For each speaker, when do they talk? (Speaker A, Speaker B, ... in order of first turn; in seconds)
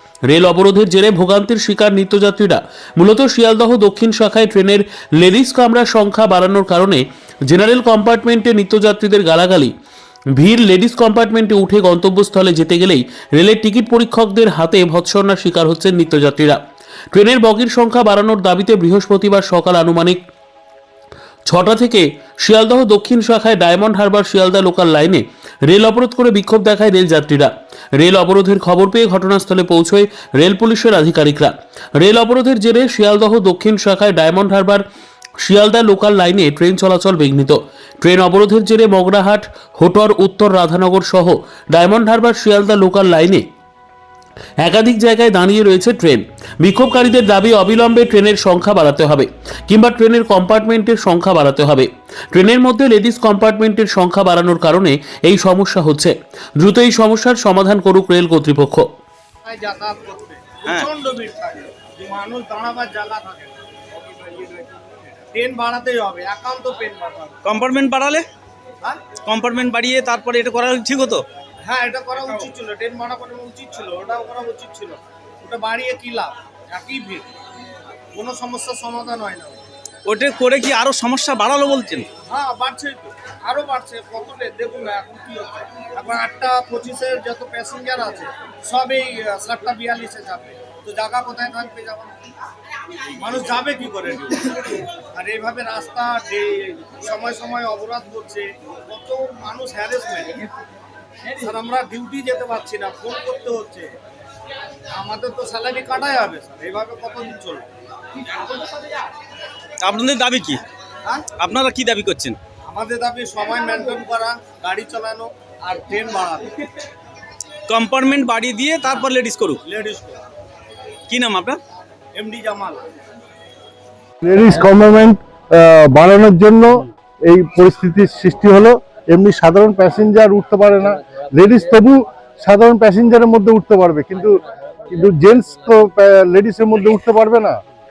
Speaker A: 0.3-9.7, 10.3-16.6, 17.1-20.2, 21.5-34.8, 35.4-43.4, 44.6-58.9
Speaker B: 59.4-67.4, 71.7-77.3, 78.2-79.6, 82.3-92.1, 93.2-100.5, 101.3-103.9, 104.9-107.6, 112.7-116.6, 119.6-120.2, 122.1-122.8
Speaker C: 67.4-68.2, 69.2-71.2, 80.1-82.1, 109.8-110.6, 111.4-112.4, 117.7-119.6, 121.1-121.6
Speaker D: 124.2-137.6